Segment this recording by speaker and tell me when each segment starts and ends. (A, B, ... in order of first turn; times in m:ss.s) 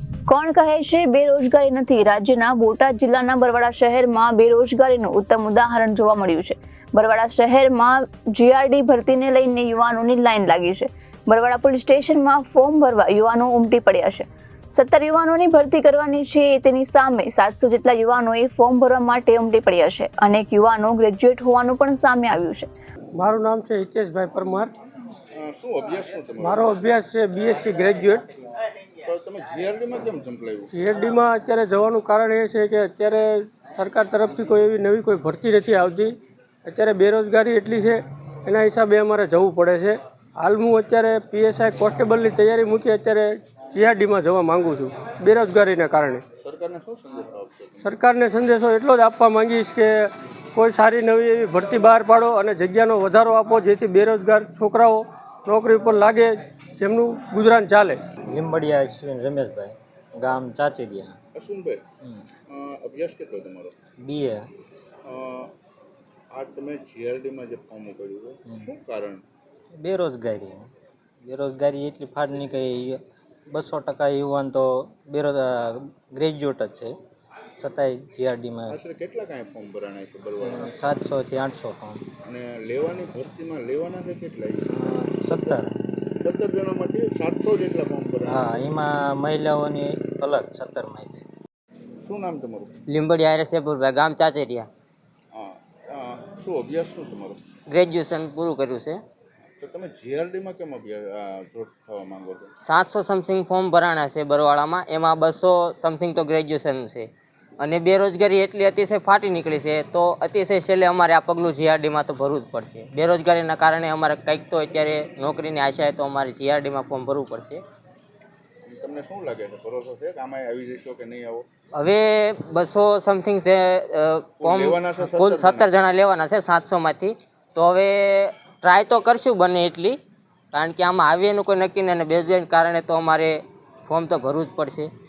0:00.3-0:22.7 A
0:23.2-0:24.7 B
0:25.3-0:26.9 C
0:26.4-0:28.3 B
0:29.0-0:30.8 C
0:30.7-0:46.2 B
0:46.4-0:47.9 C
0:47.8-0:58.0 B
0:58.3-1:01.2 D
1:01.4-1:01.8 C
1:02.5-1:03.7 C
1:04.0-1:04.5 D
1:05.0-1:05.5 C
1:06.3-1:09.2 C
1:09.8-1:10.7 D
1:11.2-1:13.0 D
1:13.5-1:17.0 D
1:17.6-1:18.8 D
1:18.7-1:20.7 C
1:20.4-1:22.0 D
1:22.2-1:25.5 C
1:24.7-1:25.8 D
1:26.2-1:28.5 C
1:28.3-1:31.2 D
1:32.0-1:32.8 C
1:32.9-1:34.7 E
1:35.3-1:37.4 C
1:37.7-1:39.0 E
1:39.6-1:42.5 C
1:42.6-1:47.1 E
1:47.6-1:57.6 E
1:58.6-2:01.4 C
2:01.7-2:10.0 E
2:04.4-2:05.7 C
2:10.5-2:14.9 E